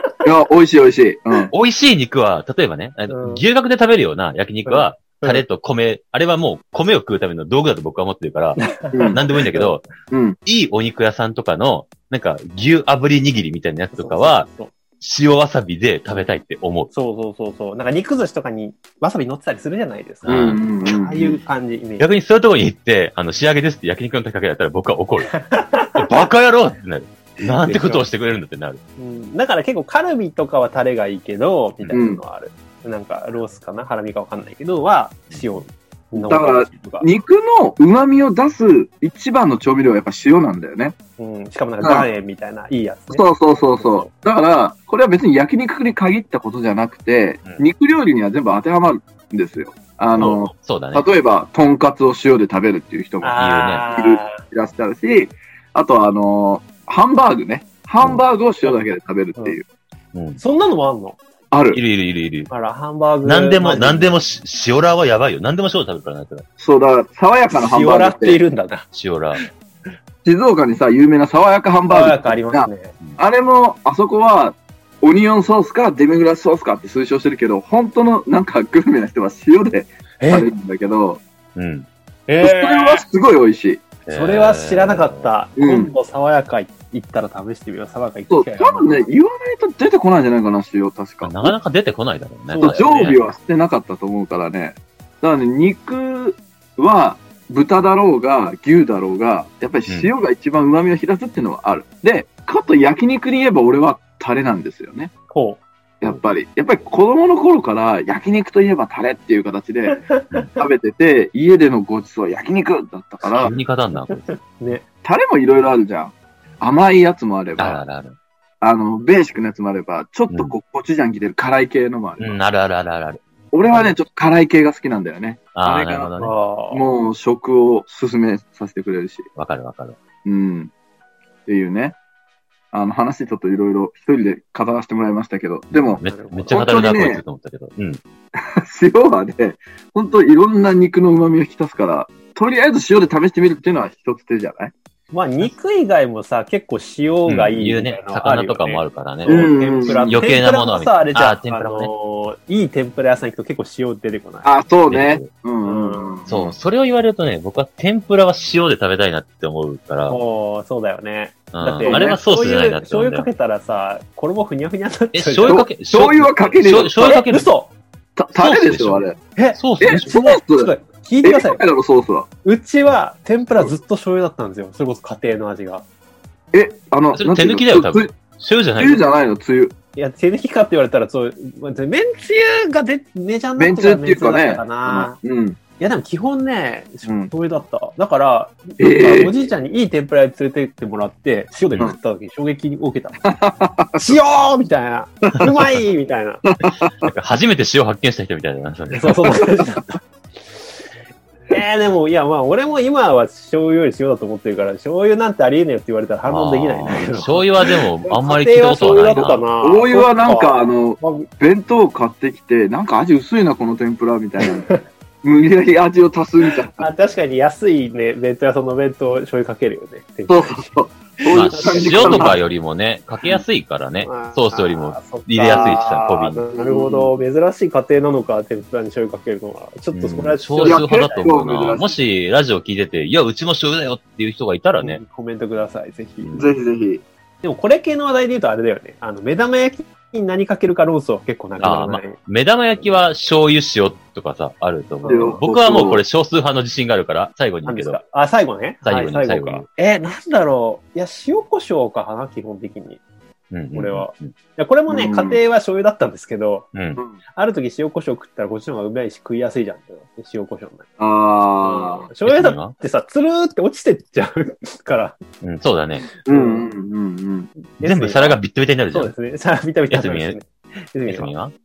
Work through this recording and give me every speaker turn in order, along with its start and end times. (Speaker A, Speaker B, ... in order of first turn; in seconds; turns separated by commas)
Speaker A: 0.2-1.5, Speaker B: 1.5-9.8, Speaker C: 3.1-3.4, Speaker C: 4.7-5.4, Speaker C: 8.6-9.8, Speaker A: 8.9-9.2, Speaker A: 10.1-10.4, Speaker B: 10.4-14.5, Speaker C: 13.9-14.7, Speaker B: 15.0-16.9, Speaker C: 16.9-22.1, Speaker B: 20.2-20.6, Speaker A: 20.3-21.4, Speaker B: 22.0-25.4, Speaker C: 25.3-26.3, Speaker B: 25.9-28.8, Speaker C: 27.6-28.1, Speaker C: 29.0-37.1, Speaker A: 31.9-32.2, Speaker B: 35.3-35.6, Speaker A: 36.2-40.9, Speaker C: 41.2-44.1, Speaker A: 41.8-42.1, Speaker A: 43.1-53.4, Speaker B: 50.2-51.0, Speaker C: 53.2-54.4, Speaker B: 53.4-53.9, Speaker A: 54.0-59.6, Speaker B: 60.1-60.4, Speaker C: 60.4-61.2, Speaker A: 61.5-61.8, Speaker B: 61.7-62.5, Speaker C: 62.5-64.1, Speaker B: 63.2-66.4, Speaker A: 66.6-68.4, Speaker C: 67.5-68.8, Speaker B: 68.9-69.4, Speaker A: 70.2-81.2, Speaker C: 71.9-72.9, Speaker C: 80.2-80.5, Speaker B: 81.5-81.9, Speaker C: 82.3-83.0, Speaker A: 82.4-83.8, Speaker B: 84.0-85.3, Speaker C: 84.1-89.1, Speaker A: 85.6-85.9, Speaker A: 88.3-91.5, Speaker B: 91.2-93.2, Speaker C: 92.5-93.2, Speaker A: 92.6-105.1, Speaker C: 105.3-105.6, Speaker A: 106.0-110.0, Speaker C: 110.1-110.6, Speaker A: 110.6-113.5, Speaker B: 113.4-114.3, Speaker C: 114.1-114.8, Speaker A: 115.0-117.8, Speaker B: 117.6-118.2, Speaker A: 118.6-122.4, Speaker B: 122.2-123.2, Speaker A: 123.5-126.1, Speaker C: 123.7-124.0, Speaker B: 125.5-126.3, Speaker C: 126.2-126.8, Speaker A: 126.7-129.3, Speaker B: 129.3-130.0, Speaker A: 130.2-130.7, Speaker A: 131.5-132.0, Speaker A: 132.7-137.2, Speaker B: 135.7-138.0, Speaker C: 136.0-136.7, Speaker A: 138.3-144.7, Speaker C: 145.1-154.5, Speaker B: 147.3-151.9, Speaker A: 149.2-150.2, Speaker A: 154.4-156.5, Speaker B: 154.9-155.3, Speaker C: 155.6-156.1, Speaker B: 156.3-160.2, Speaker C: 160.1-165.6, Speaker B: 161.5-163.3, Speaker A: 161.8-162.1, Speaker B: 165.1-167.5, Speaker A: 165.4-167.2, Speaker C: 167.0-167.7, Speaker A: 168.2-169.2, Speaker B: 168.3-170.1, Speaker C: 169.3-171.6, Speaker A: 169.8-170.7, Speaker A: 171.2-172.3, Speaker C: 172.4-175.8, Speaker A: 176.5-178.1, Speaker B: 177.1-179.0, Speaker A: 178.8-179.7, Speaker C: 179.9-185.2, Speaker A: 183.6-185.6, Speaker C: 185.8-193.2, Speaker A: 187.1-187.3, Speaker A: 188.8-189.3, Speaker A: 193.2-194.1, Speaker C: 194.0-196.4, Speaker A: 196.5-196.9, Speaker B: 197.0-199.3, Speaker C: 198.9-200.0, Speaker C: 201.5-211.3, Speaker B: 206.2-209.4, Speaker A: 209.1-216.9, Speaker C: 214.4-214.8, Speaker C: 216.7-220.7, Speaker A: 220.3-222.4, Speaker C: 221.3-222.4, Speaker B: 221.3-226.4, Speaker C: 224.0-231.3, Speaker A: 226.5-227.1, Speaker B: 229.9-235.0, Speaker A: 230.6-232.0, Speaker C: 234.8-236.4, Speaker B: 236.2-236.6, Speaker A: 236.3-237.0, Speaker C: 237.4-242.2, Speaker B: 241.6-248.0, Speaker C: 245.0-245.4, Speaker A: 245.1-246.0, Speaker C: 247.7-253.0, Speaker B: 248.8-249.7, Speaker B: 253.5-254.3, Speaker C: 253.7-256.7, Speaker A: 254.9-255.4, Speaker B: 256.7-257.0, Speaker C: 257.3-261.0, Speaker A: 261.0-262.1, Speaker C: 261.6-265.2, Speaker B: 262.2-262.7, Speaker B: 265.4-266.1, Speaker A: 266.2-267.5, Speaker C: 266.3-266.7, Speaker C: 267.8-268.4, Speaker B: 267.8-269.1, Speaker C: 268.9-271.3, Speaker B: 269.9-270.4, Speaker B: 271.1-271.5